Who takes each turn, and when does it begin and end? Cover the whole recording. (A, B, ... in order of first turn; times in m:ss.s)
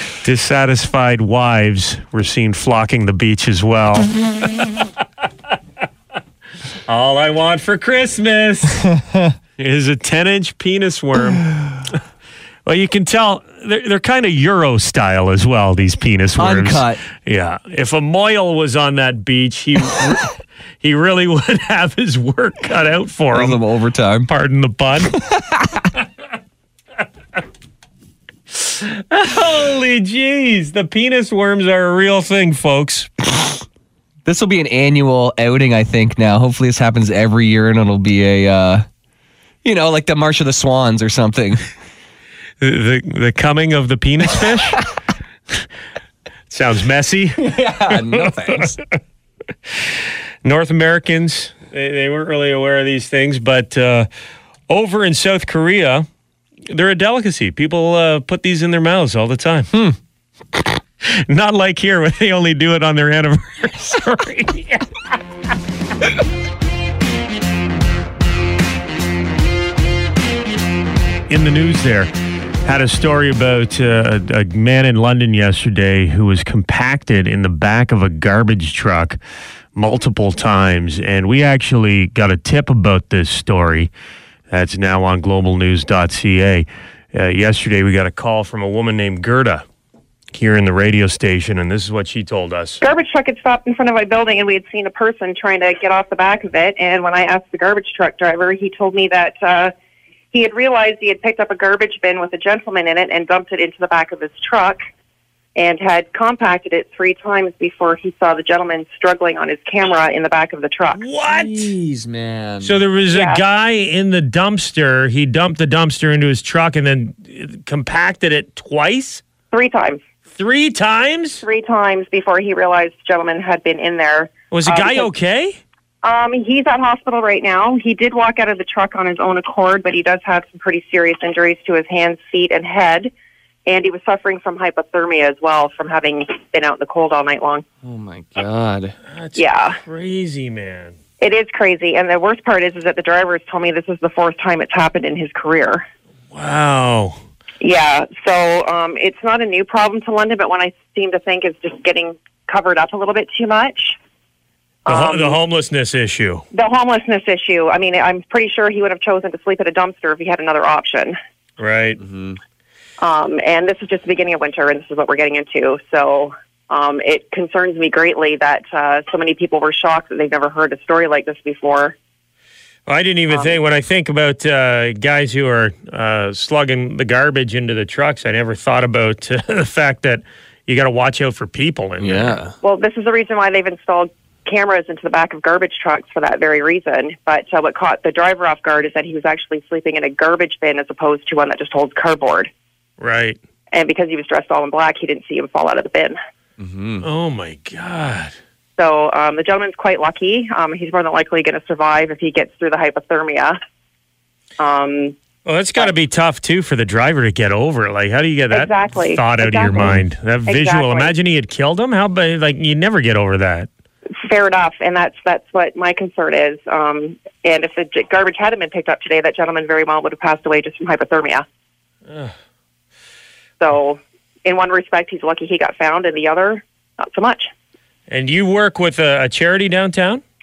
0:00.2-0:04.8 A
0:06.9-0:08.8 A
0:08.8-0:09.3 B
0:09.6-0:12.0 A
0:12.6-0:23.6 A
0:16.4-0:17.1 B
0:23.3-0:24.3 B
0:24.3-0:25.2 A
0:25.1-0:25.9 B
0:28.5-0:33.4 A
0:34.2-0:38.9 B
0:39.6-0:41.6 B
0:42.6-0:44.8 A
0:46.5-0:48.7 A
0:47.4-0:48.8 B
0:50.4-0:54.1 A
0:54.7-0:56.1 A
0:56.7-0:59.7 A
1:01.1-1:04.9 A
1:11.3-1:12.1 A
1:12.6-1:19.2 A
1:19.8-1:23.9 A
1:24.5-1:29.6 A
1:30.3-1:32.8 A
1:32.8-1:39.7 C
1:40.3-1:44.8 C
1:45.6-1:51.0 C
1:51.0-1:51.7 A
1:51.2-1:52.8 B
1:52.6-1:59.2 A
1:53.1-1:53.4 C
1:59.5-2:00.0 C
2:00.4-2:01.4 A
2:01.4-2:05.1 C
2:04.5-2:05.6 A
2:06.0-2:13.1 C
2:13.7-2:17.6 C
2:17.8-2:19.0 B
2:19.1-2:21.0 A
2:19.4-2:19.8 C
2:21.2-2:25.8 C
2:26.3-2:27.2 A
2:27.6-2:34.0 C
2:34.9-2:35.4 C
2:34.9-2:36.4 A
2:36.5-2:41.2 C
2:41.6-2:42.0 A
2:42.0-2:42.4 B
2:43.0-2:52.0 C
2:52.9-3:02.4 A
3:02.0-3:02.5 B
3:02.6-3:12.5 C
3:13.0-3:13.4 A
3:13.7-3:16.2 C
3:16.6-3:17.0 B
3:17.0-3:18.3 A
3:18.8-3:23.6 C
3:24.6-3:25.2 C
3:25.5-3:33.7 A
3:28.5-3:31.1 C
3:34.2-3:41.4 C
3:43.6-3:47.5 C
3:48.1-3:50.2 A